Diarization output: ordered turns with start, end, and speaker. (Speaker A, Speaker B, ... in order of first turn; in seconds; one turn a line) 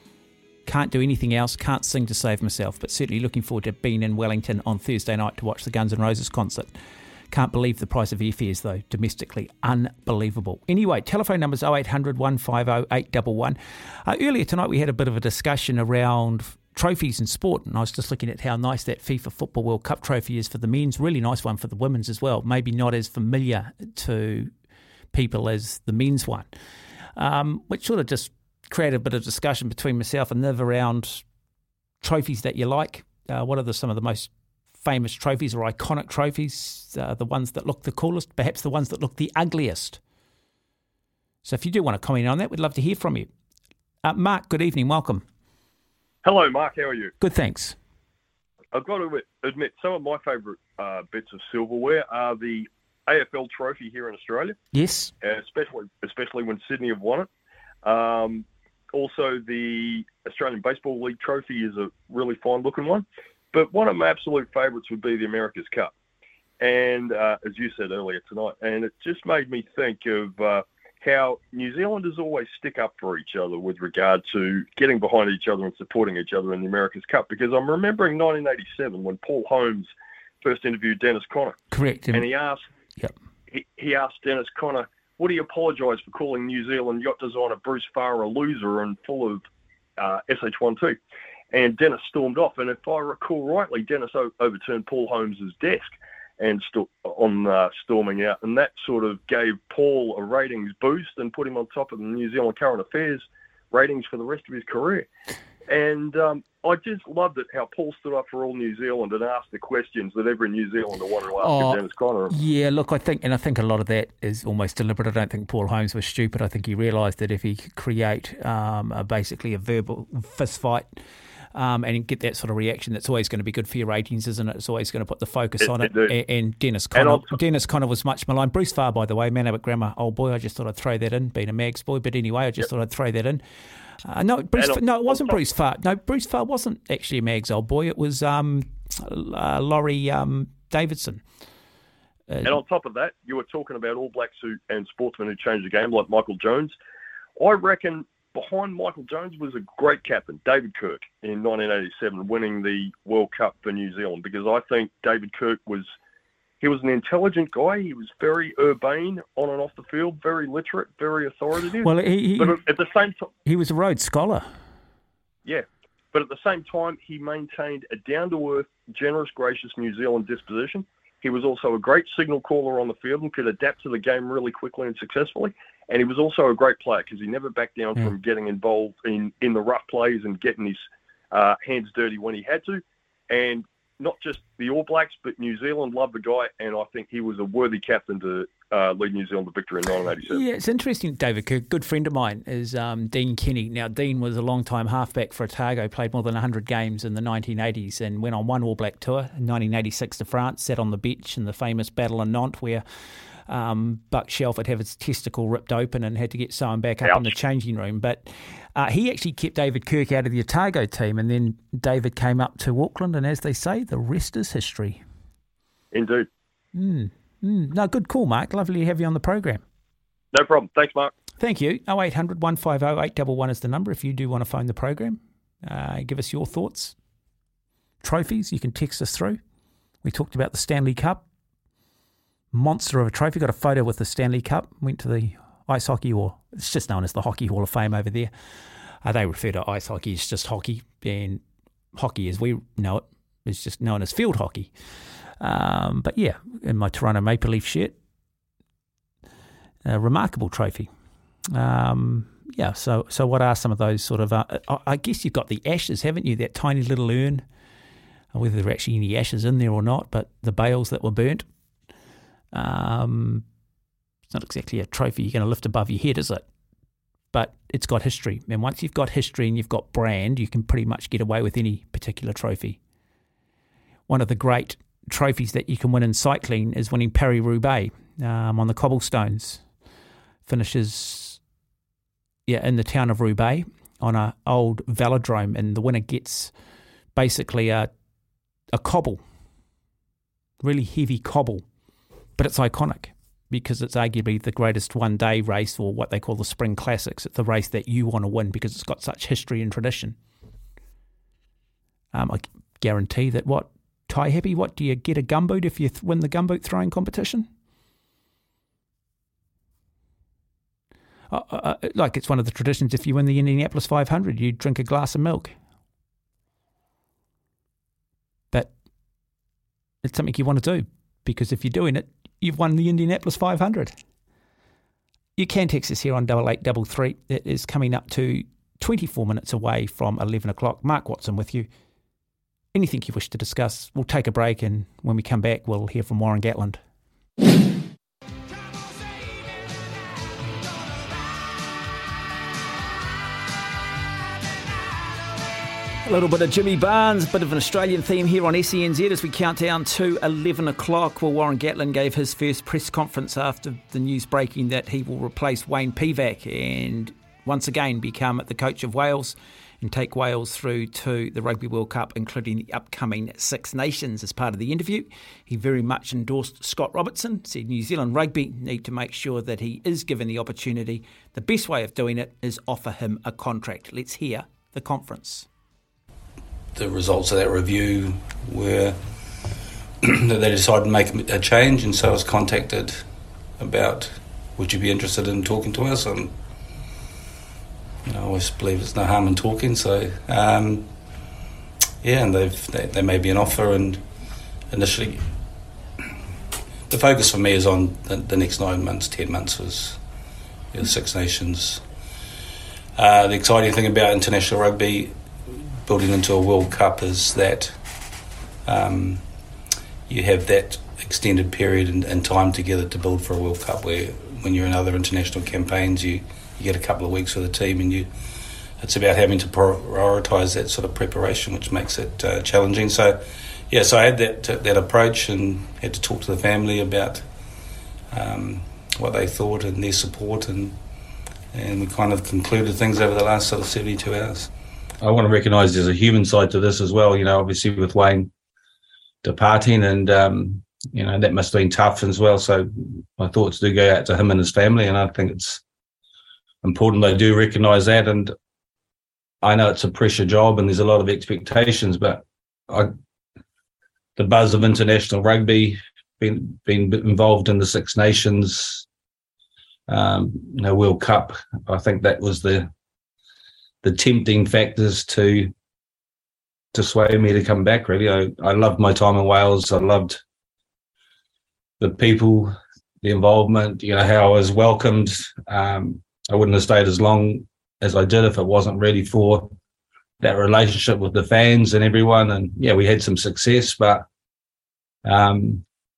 Speaker A: 0.7-6.7
Speaker A: 7.3-24.5
Speaker A: 25.1-26.5
Speaker A: 27.1-31.2
Speaker A: 32.0-40.0
Speaker A: 41.4-43.3
Speaker A: 44.0-45.2
Speaker B: 46.2-47.1
Speaker A: 47.2-47.8
Speaker B: 48.7-54.5
Speaker A: 54.7-55.1
Speaker B: 55.2-57.3
Speaker B: 57.8-65.9
Speaker B: 66.6-81.6
Speaker A: 81.7-82.3
Speaker B: 82.1-82.6
Speaker B: 83.5-89.5
Speaker B: 90.0-91.0
Speaker B: 91.5-105.1
Speaker B: 105.7-112.3
Speaker A: 111.4-121.0
Speaker A: 121.5-133.4
Speaker B: 125.6-126.1
Speaker B: 126.9-127.3
Speaker A: 134.0-141.2
Speaker B: 134.6-135.4
Speaker A: 142.3-142.6
Speaker B: 142.4-146.8
Speaker B: 147.4-155.9
Speaker B: 156.6-163.3
Speaker A: 161.8-162.6
Speaker A: 163.4-164.5
Speaker B: 165.4-190.4
Speaker A: 190.2-202.8
Speaker A: 203.4-215.0
Speaker B: 207.0-207.3
Speaker B: 215.9-216.3
Speaker A: 216.7-219.6
Speaker B: 220.3-221.1
Speaker A: 221.4-226.9
Speaker A: 228.0-229.4
Speaker A: 230.0-231.2
Speaker A: 232.5-238.3
Speaker A: 239.0-241.4
Speaker A: 241.9-244.7
Speaker A: 245.4-248.0
Speaker A: 249.8-250.9
Speaker A: 251.5-257.4
Speaker A: 258.3-261.4
Speaker A: 262.5-263.4
Speaker A: 264.3-266.4
Speaker A: 267.3-272.8
Speaker A: 274.1-279.6
Speaker A: 280.4-281.4
Speaker A: 282.4-286.5
Speaker A: 287.1-287.9
Speaker A: 288.7-289.2
Speaker A: 290.6-291.6
Speaker A: 292.4-300.2
Speaker A: 302.1-307.5
Speaker A: 311.3-315.5
Speaker A: 320.0-323.9
Speaker A: 325.4-331.7
Speaker A: 332.7-336.8
Speaker A: 346.0-375.5
Speaker C: 376.7-379.0
Speaker C: 380.0-383.0
Speaker C: 383.6-386.3
Speaker C: 388.0-390.9
Speaker C: 392.0-394.0
Speaker C: 394.7-395.3
Speaker C: 396.9-400.0
Speaker C: 400.7-401.8
Speaker C: 403.0-405.1
Speaker C: 405.8-407.8
Speaker C: 408.6-409.2
Speaker C: 410.1-418.1
Speaker C: 418.8-427.2
Speaker C: 428.1-430.8
Speaker C: 431.5-438.3
Speaker C: 439.2-445.6
Speaker C: 446.6-448.3
Speaker C: 449.4-452.9
Speaker C: 454.1-458.9
Speaker C: 459.9-462.7
Speaker C: 463.8-465.5
Speaker C: 466.7-470.2
Speaker C: 471.8-479.5
Speaker C: 480.2-484.1
Speaker C: 485.0-485.6